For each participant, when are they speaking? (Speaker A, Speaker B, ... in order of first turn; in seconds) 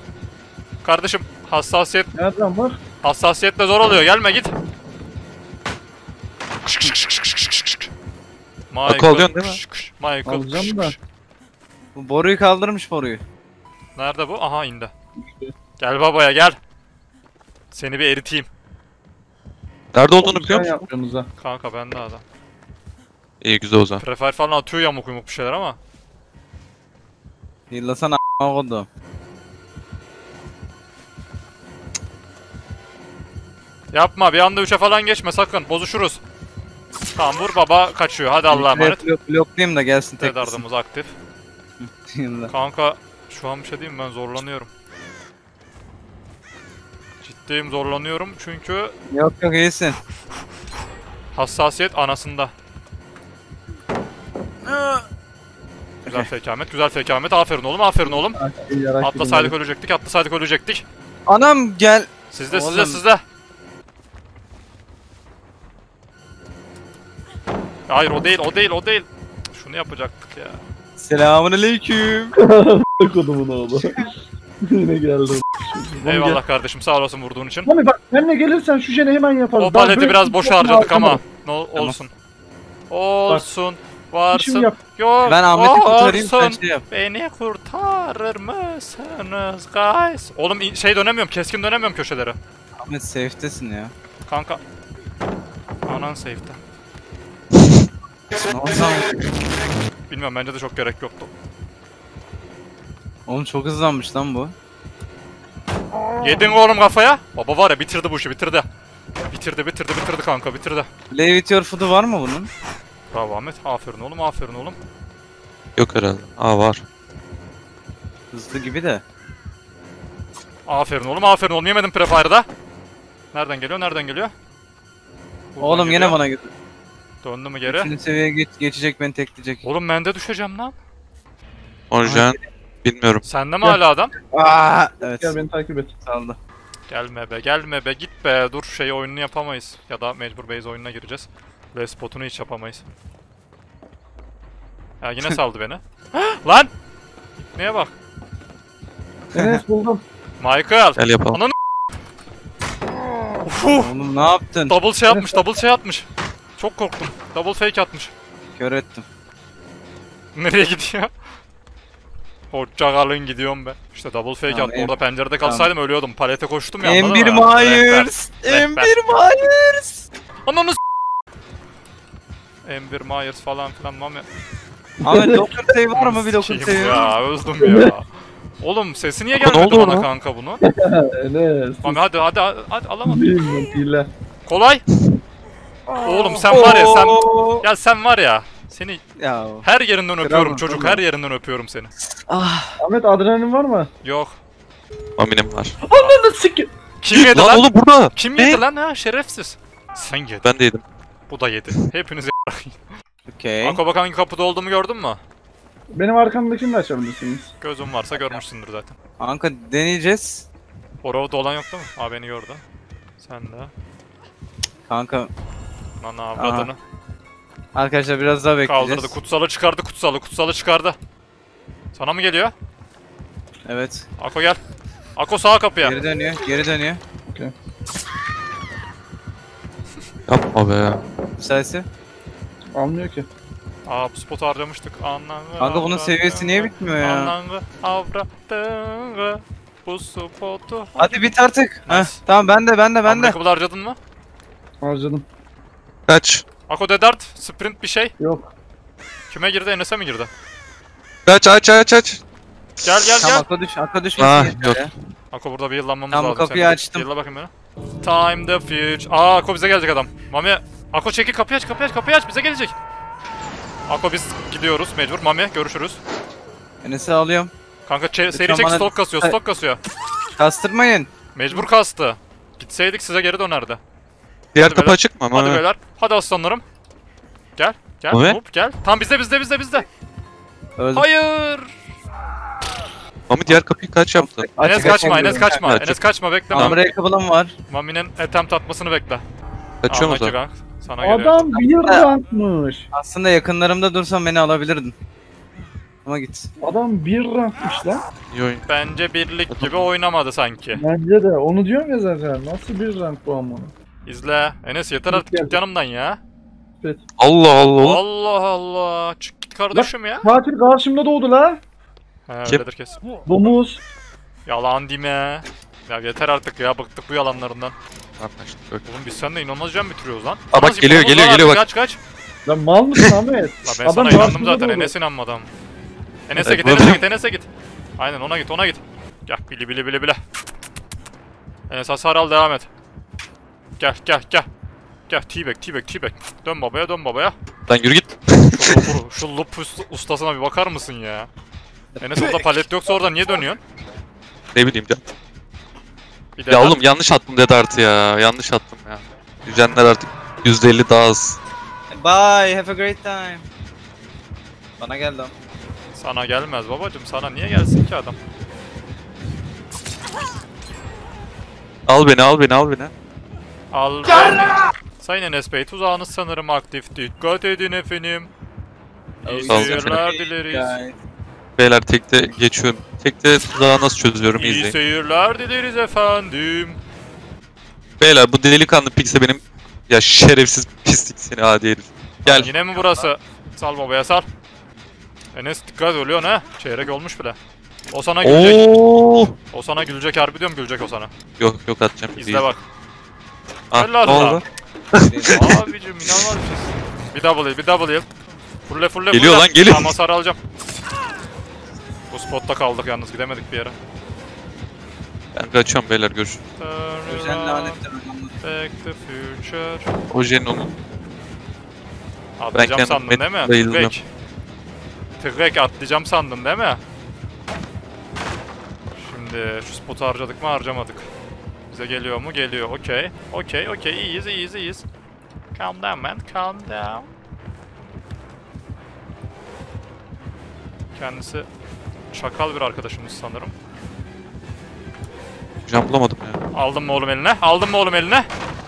Speaker A: 0.8-2.1, 3.0-4.5, 6.6-7.9, 8.7-11.0, 13.9-14.9, 15.8-16.6, 17.7-18.5, 21.4-22.2, 24.0-25.8, 33.9-36.2, 37.1-39.0, 40.2-41.1, 42.5-44.7, 47.2-48.9, 51.3-52.5, 56.1-58.4, 59.0-60.8, 62.3-63.2, 67.9-70.6, 76.0-77.7, 79.6-82.1, 82.9-92.4, 94.2-94.6, 95.8-96.6, 100.1-101.3, 106.2-108.7, 109.3-110.9, 113.1-114.8, 120.7-122.5, 123.3-124.3, 125.5-126.2, 127.2-127.9, 129.6-130.8, 133.2-134.1, 136.9-142.8, 145.0-146.7, 147.5-147.9, 150.4-151.5, 153.4-153.9, 154.7-158.1, 160.3-161.1, 162.5-168.9, 170.4-170.8, 172.6-174.3, 175.9-178.1, 178.6-180.6, 181.8-183.3, 184.4-184.8, 186.0-189.0, 189.6-191.9, 194.0-194.4, 197.0-200.5, 201.3-202.8, 203.6-205.2, 207.6-208.9, 211.0-212.6, 213.2-213.7, 216.0-216.8, 218.6-221.0, 221.9-222.5, 224.2-224.6, 225.2-226.0, 233.8-241.1, 241.8-242.2, 243.0-244.0, 246.7-248.1, 249.3-250.3, 252.8-253.4, 255.3-257.5, 258.0-262.7, 263.9-266.0, 267.9-269.8, 271.3-273.8, 274.6-276.6, 277.6-279.9, 280.9-281.7, 284.6-286.9, 287.7-289.2, 289.9-291.6, 298.7-300.8, 304.0-306.2, 307.8-310.3, 312.3-313.0, 314.4-317.7, 318.8-322.0, 323.6-325.5, 326.3-330.2, 331.7-332.7, 333.8-334.5, 335.1-337.3, 338.5-341.3, 342.0-343.6, 346.4-346.8, 355.9-358.2, 363.7-368.3, 369.2-370.8, 374.3-376.8, 382.3-384.2, 385.3-387.4, 387.9-388.6, 389.5-391.1, 392.2-392.6, 393.7-394.4, 395.3-398.1, 398.7-400.4, 402.1-403.8, 406.6-407.8, 408.4-409.9, 412.4-414.0, 415.2-416.8, 418.9-421.1, 421.7-424.8, 425.5-427.1, 430.9-431.5, 432.1-433.5, 436.5-438.3
Speaker B: 2.1-2.8, 10.2-10.9, 15.2-15.5, 20.2-21.3, 58.4-59.5, 72.3-76.4, 77.7-81.2, 84.3-84.8, 135.0-135.9, 149.3-150.0, 155.1-155.4, 175.0-175.5, 177.6-177.9, 180.6-182.0, 183.0-184.1, 192.8-193.9, 195.8-196.7, 205.9-207.5, 232.7-233.3, 244.8-245.2, 248.2-248.5, 291.0-292.9, 296.6-298.0, 300.8-303.7, 305.1-305.6, 309.7-311.6, 313.2-313.8, 322.4-324.9
Speaker C: 8.8-9.6, 19.9-20.7, 23.4-24.0, 115.8-116.8, 131.9-133.2, 151.0-151.4, 179.4-180.1, 195.2-195.7, 197.1-198.6, 200.4-200.8, 230.3-231.0, 246.1-246.4, 251.2-252.2, 254.2-254.9, 274.5-275.6, 278.1-278.4, 283.3-284.8, 285.6-286.0, 289.8-290.3, 298.3-298.6, 299.5-299.9, 307.2-308.0, 318.2-318.8, 320.5-321.6, 326.4-327.0, 337.7-338.9, 344.5-345.0, 346.5-351.4, 361.9-362.9, 369.5-370.0, 371.6-374.8, 378.0-382.5, 388.2-389.3, 391.4-392.4, 393.7-395.6, 399.1-399.9, 405.3-406.4, 410.1-410.7, 412.5-413.9, 435.6-436.4
Speaker D: 11.9-13.2, 27.7-28.9, 38.5-40.6, 41.8-42.5, 49.1-50.0, 54.6-55.0, 61.3-63.0, 71.0-72.3, 85.2-86.8, 92.8-93.9, 98.5-99.2, 103.3-104.5, 111.1-112.5, 118.3-119.0, 125.6-126.5, 127.7-129.6, 132.0-132.4, 134.3-135.4, 136.0-136.4, 149.3-149.6, 153.7-154.8, 158.6-159.0, 164.5-165.7, 166.8-170.1, 175.0-177.1, 186.5-187.6, 189.2-189.7, 190.2-191.0, 192.3-192.8, 203.3-203.8, 208.1-208.4, 209.2-210.5, 214.9-215.3, 216.3-216.7, 217.7-219.2, 223.7-224.1, 225.8-227.0, 231.4-231.8, 235.6-237.3, 241.0-243.3, 253.2-254.9, 256.1-257.1, 266.8-267.5, 268.3-269.4, 270.4-271.1, 280.8-281.1, 284.1-285.6, 286.5-287.5, 291.5-292.1, 292.9-294.9, 296.0-296.5, 341.9-342.4, 351.9-353.5, 354.8-355.3, 369.2-370.9, 382.2-383.1, 395.0-395.4, 407.1-408.4